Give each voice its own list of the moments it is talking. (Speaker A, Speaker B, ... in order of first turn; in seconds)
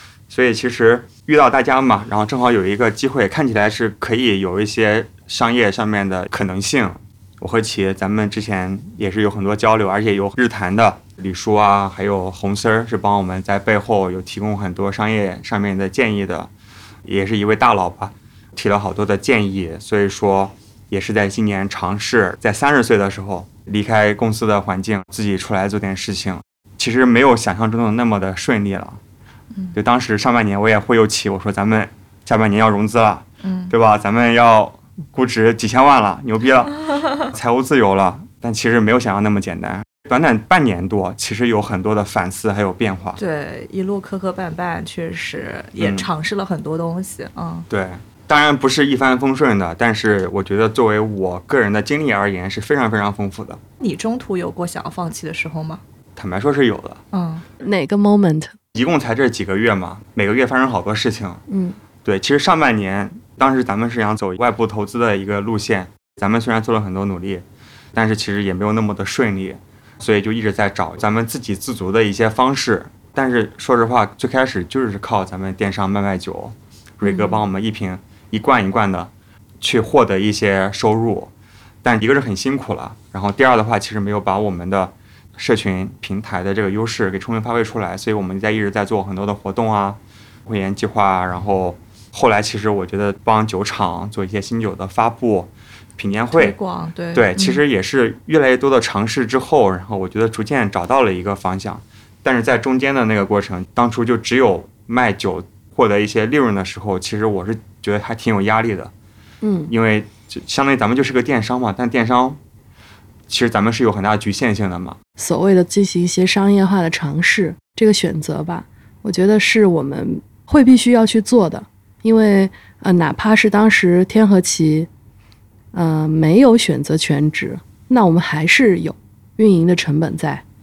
Speaker A: 0.3-16.5, 17.1-29.0, 29.7-43.2, 45.8-46.1, 47.7-53.6, 56.2-57.0, 58.7-61.4, 62.0-81.3, 81.8-96.6, 97.1-108.9, 109.7-112.4, 113.3-115.0
Speaker B: 33.4-33.7, 43.2-47.7, 53.8-55.8, 57.1-57.4, 96.3-97.6
Speaker C: 57.6-58.5, 61.5-61.8, 109.4-109.7, 115.2-124.9, 125.7-130.4